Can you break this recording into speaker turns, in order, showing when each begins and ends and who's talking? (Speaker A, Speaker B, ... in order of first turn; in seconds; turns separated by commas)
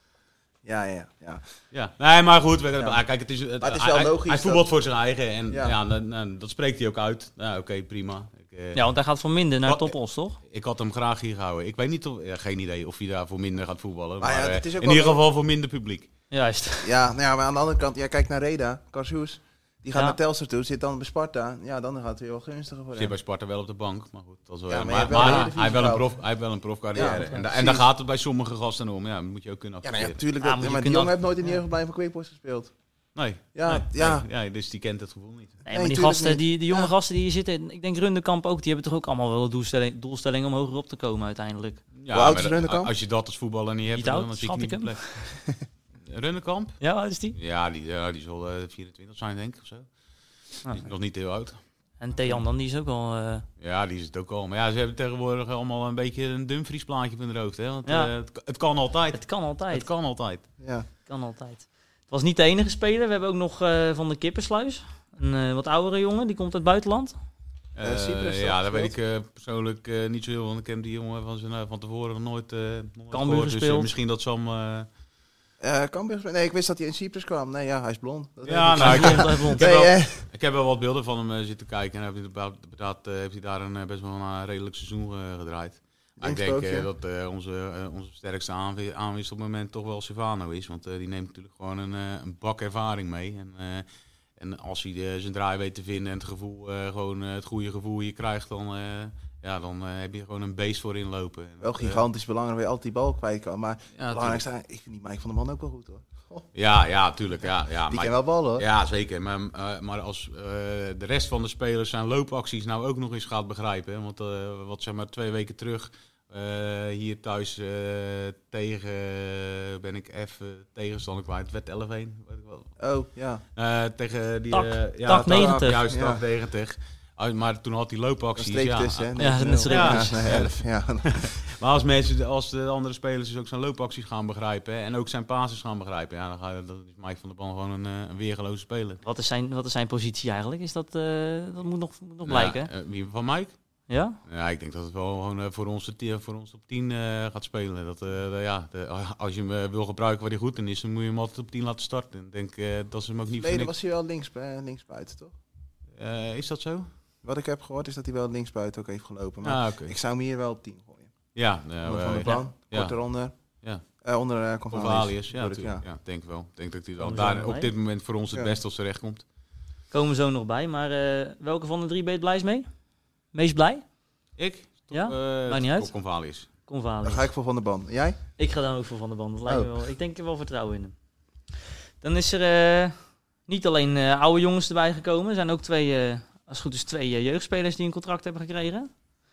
Speaker A: 0.6-1.4, Speaker B: 1.7-8.8, Speaker A: 3.6-4.7, Speaker A: 5.5-5.8, Speaker C: 8.7-10.4, Speaker B: 9.7-9.9, Speaker B: 10.5-16.1, Speaker A: 14.2-15.2, Speaker C: 16.3-16.9, Speaker A: 16.8-23.1, Speaker B: 22.9-30.2, Speaker A: 24.7-26.1, Speaker C: 25.2-25.4, Speaker A: 26.9-27.9, Speaker C: 27.0-27.4, Speaker A: 29.8-32.7, Speaker C: 30.4-31.6, Speaker B: 33.1-35.6, Speaker A: 33.5-34.2, Speaker C: 35.6-41.8, Speaker A: 35.7-36.9, Speaker B: 42.0-45.2, Speaker A: 42.1-42.9, Speaker C: 43.9-45.3, Speaker B: 46.0-49.9, Speaker C: 46.8-47.4, Speaker B: 50.7-51.6, Speaker C: 52.0-53.4, Speaker B: 53.6-60.4, Speaker C: 57.8-58.1, Speaker C: 59.1-59.9, Speaker A: 60.6-60.9, Speaker C: 61.0-67.2, Speaker B: 67.7-74.9, Speaker A: 67.8-68.9, Speaker C: 73.1-73.9, Speaker A: 75.6-80.2, Speaker B: 78.4-93.8, Speaker C: 78.7-79.7, Speaker A: 86.2-86.9, Speaker B: 94.4-102.0, Speaker A: 101.6-106.5, Speaker B: 104.0-104.4, Speaker B: 106.5-122.7, Speaker A: 107.9-108.7, Speaker A: 122.8-123.4, Speaker B: 123.5-139.0, Speaker C: 124.5-125.8, Speaker A: 125.1-126.2, Speaker A: 128.3-131.3, Speaker C: 129.2-130.2, Speaker C: 139.0-142.7, Speaker B: 142.2-143.5, Speaker C: 143.9-144.2, Speaker B: 144.2-153.7, Speaker A: 153.4-155.3, Speaker B: 155.9-156.9, Speaker A: 157.2-161.1, Speaker B: 159.4-159.9, Speaker B: 161.3-163.0, Speaker A: 161.8-163.3, Speaker A: 164.0-165.8, Speaker B: 164.7-169.2, Speaker C: 167.0-167.7, Speaker C: 169.9-172.7, Speaker C: 173.3-173.8, Speaker B: 174.4-176.5, Speaker C: 174.9-175.9, Speaker C: 176.7-177.3, Speaker A: 177.0-178.2, Speaker C: 178.4-180.9, Speaker A: 179.4-179.7, Speaker C: 182.0-182.9, Speaker C: 183.5-188.9